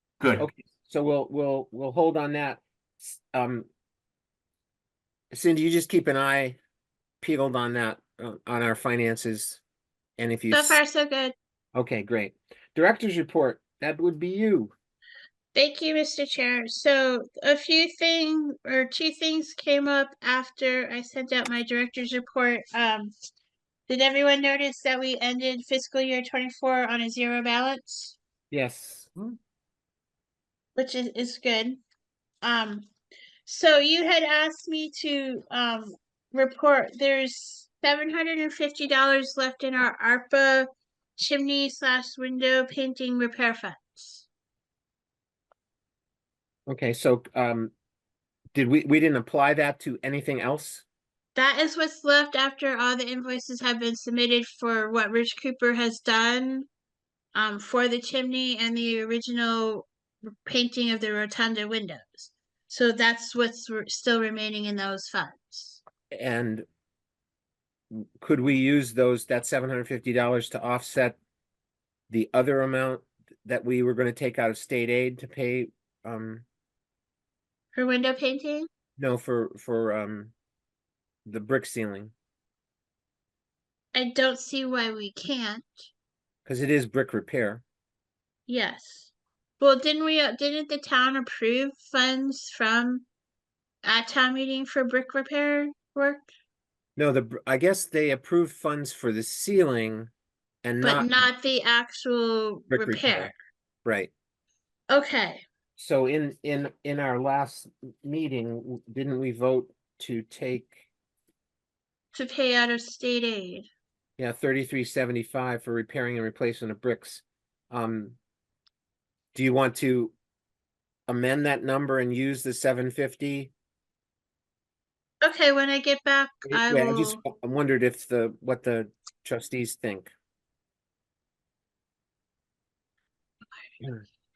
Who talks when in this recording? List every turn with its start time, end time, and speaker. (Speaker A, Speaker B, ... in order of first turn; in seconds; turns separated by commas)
Speaker A: 0.4-3.7, Speaker A: 5.3-6.6, Speaker A: 7.2-9.6, Speaker A: 10.2-10.8, Speaker B: 10.5-11.3, Speaker A: 11.8-14.7, Speaker B: 15.5-23.1, Speaker B: 23.9-28.1, Speaker A: 28.5-29.3, Speaker B: 30.7-31.8, Speaker B: 32.4-32.9, Speaker B: 33.5-44.2, Speaker A: 46.7-47.7, Speaker A: 48.5-50.8, Speaker B: 51.4-56.7, Speaker B: 57.3-59.9, Speaker B: 60.4-65.8, Speaker A: 66.1-66.6, Speaker A: 67.9-71.2, Speaker A: 72.1-76.4, Speaker B: 77.7-78.7, Speaker A: 79.0-80.3, Speaker A: 81.2-82.1, Speaker B: 83.9-85.9, Speaker A: 86.4-87.6, Speaker B: 88.5-93.0, Speaker B: 93.8-96.3, Speaker A: 97.0-100.1, Speaker A: 100.6-101.2, Speaker B: 100.8-103.3, Speaker A: 102.7-103.3, Speaker A: 103.8-104.1, Speaker B: 104.9-105.4, Speaker A: 105.8-110.8, Speaker B: 112.1-113.7, Speaker A: 114.2-118.2, Speaker A: 119.3-120.1, Speaker A: 121.1-123.5, Speaker B: 125.2-127.2, Speaker A: 126.5-130.1